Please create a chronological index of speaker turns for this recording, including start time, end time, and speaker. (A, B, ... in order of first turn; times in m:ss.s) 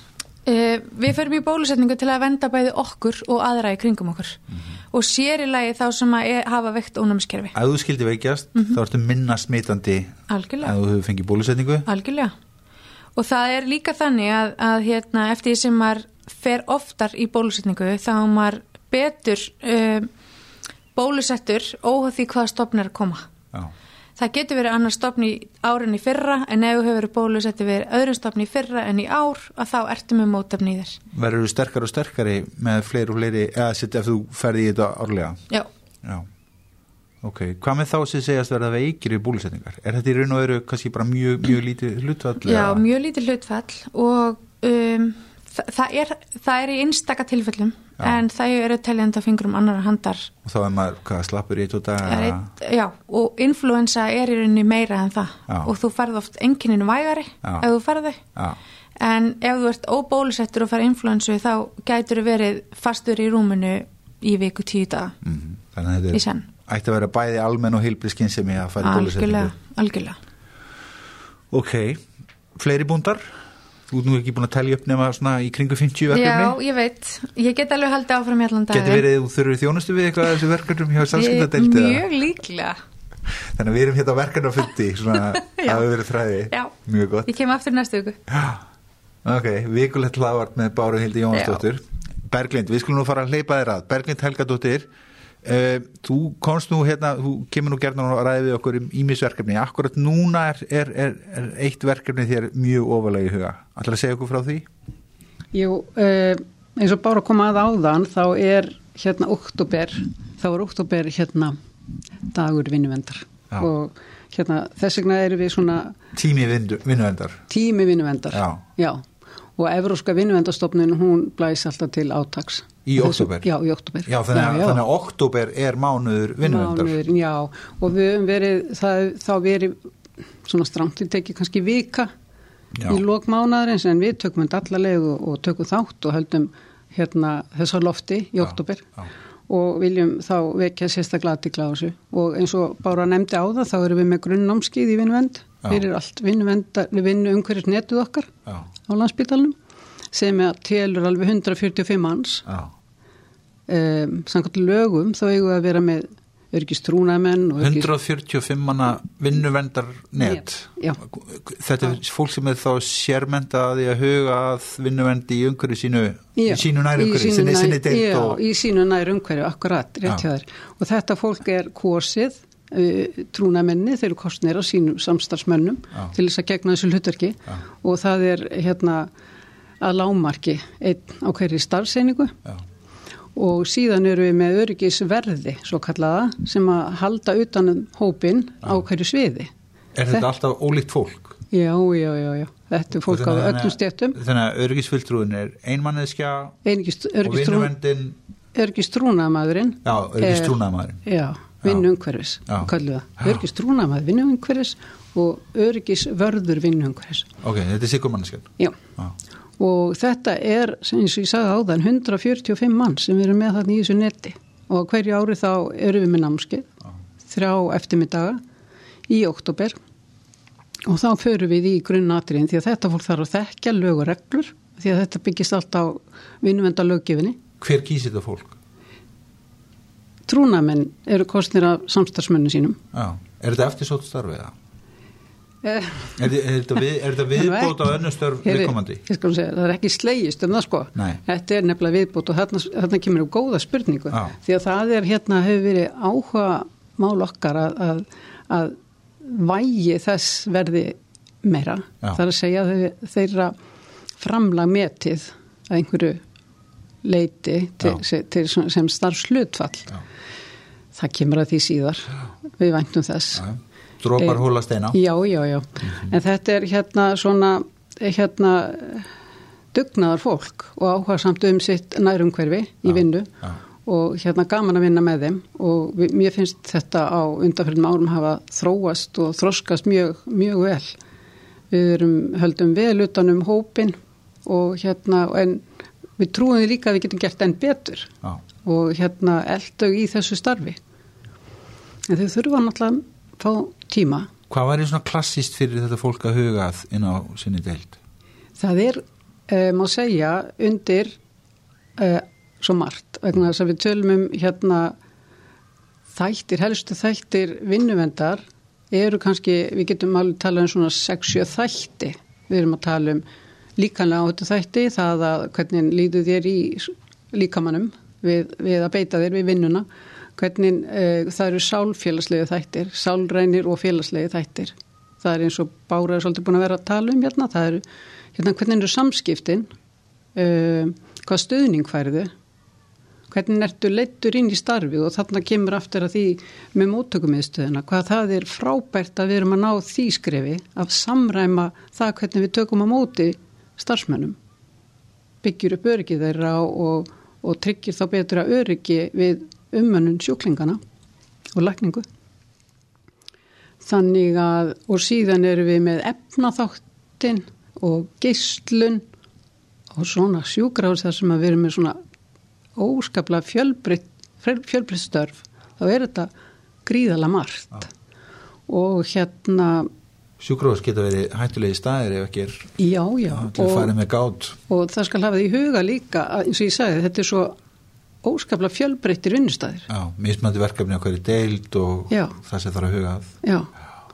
0:00.5-0:04.4 A
0:04.9-0:07.6 A
0:07.6-0:11.9 B
0:10.3-0:10.8 A
0:11.9-0:12.3 A
0:13.2-0:20.1 A
0:21.0-0:23.3 A
0:24.2-0:31.0 A
0:31.1-0:35.4 B
0:37.2-0:42.8 B
0:42.4-0:50.3 A
0:50.4-0:52.5 B
0:52.0-0:58.2 A
0:59.0-1:05.2 A
1:05.2-1:09.5 B
1:06.1-1:06.5 A
1:08.8-1:10.2 A
1:11.5-1:13.4 B
1:13.9-1:16.6 B
1:16.1-1:19.0 A
1:18.7-1:22.0 B
1:21.1-1:22.8 A
1:23.3-1:27.3 B
1:25.3-1:25.8 A
1:27.3-1:28.2 A
1:28.3-1:28.6 B
1:29.2-1:34.9 B
1:31.3-1:31.6 A
1:35.4-1:44.7 B
1:45.5-1:51.6 C
1:52.3-1:56.0 C
1:56.2-1:57.4 B
1:57.5-1:59.0 C
1:58.3-1:58.6 B
1:59.6-2:04.8 C
2:02.9-2:03.5 B
2:04.1-2:07.0 B
2:06.4-2:09.8 C
2:10.4-2:12.1 C
2:12.8-2:13.0 B
2:12.9-2:18.9 C
2:18.4-2:19.1 B
2:19.5-2:28.3 C
2:28.9-2:29.6 C
2:30.1-2:32.5 C
2:33.7-2:37.9 C
2:37.6-2:48.4 B
2:40.2-2:41.0 C
2:46.4-2:59.1 C
2:59.8-3:02.4 C
3:03.4-3:09.5 C
3:10.0-3:11.4 B
3:11.5-3:14.2 C
3:13.1-3:16.6 B
3:16.6-3:17.7 C
3:17.2-3:18.2 B
3:18.6-3:27.3 C
3:19.8-3:21.0 B
3:27.4-3:29.1 B
3:29.6-3:36.7 C
3:37.3-3:38.4 C
3:39.1-3:39.8 C
3:40.9-3:47.4 C
3:47.6-3:48.6 B
3:50.3-3:52.8 C
3:52.9-3:54.5 B
3:55.6-3:56.3 C
3:56.2-3:59.0 B
3:57.3-4:13.6 C
4:14.2-4:16.2 C
4:17.0-4:20.0 C
4:21.0-4:23.5 C
4:23.4-4:25.0 B
4:24.2-4:29.1 C
4:29.7-4:33.3 C
4:32.9-4:33.6 B
4:33.8-4:41.0 C
4:41.7-4:45.6 C
4:46.2-4:48.1 C
4:48.6-4:50.8 C
4:52.1-4:54.3 C
4:54.5-4:58.0 B
4:58.6-5:01.1 C
5:02.0-5:05.0 C
5:06.1-5:13.2 C
5:13.8-5:19.9 C
5:20.4-5:27.8 C
5:28.4-5:29.7 C
5:30.4-5:32.3 C
5:33.3-5:44.4 C
5:45.4-5:50.8 C
5:51.6-5:52.0 C
5:53.8-5:59.0 C
5:59.9-6:02.0 C
6:02.8-6:06.3 C
6:06.9-6:07.9 C
6:08.7-6:09.9 C
6:10.4-6:12.7 B
6:12.8-6:13.9 C
6:13.3-6:14.6 B
6:14.7-6:17.6 C
6:18.2-6:19.9 C
6:19.9-6:23.3 B
6:22.1-6:22.4 C
6:23.4-6:23.7 C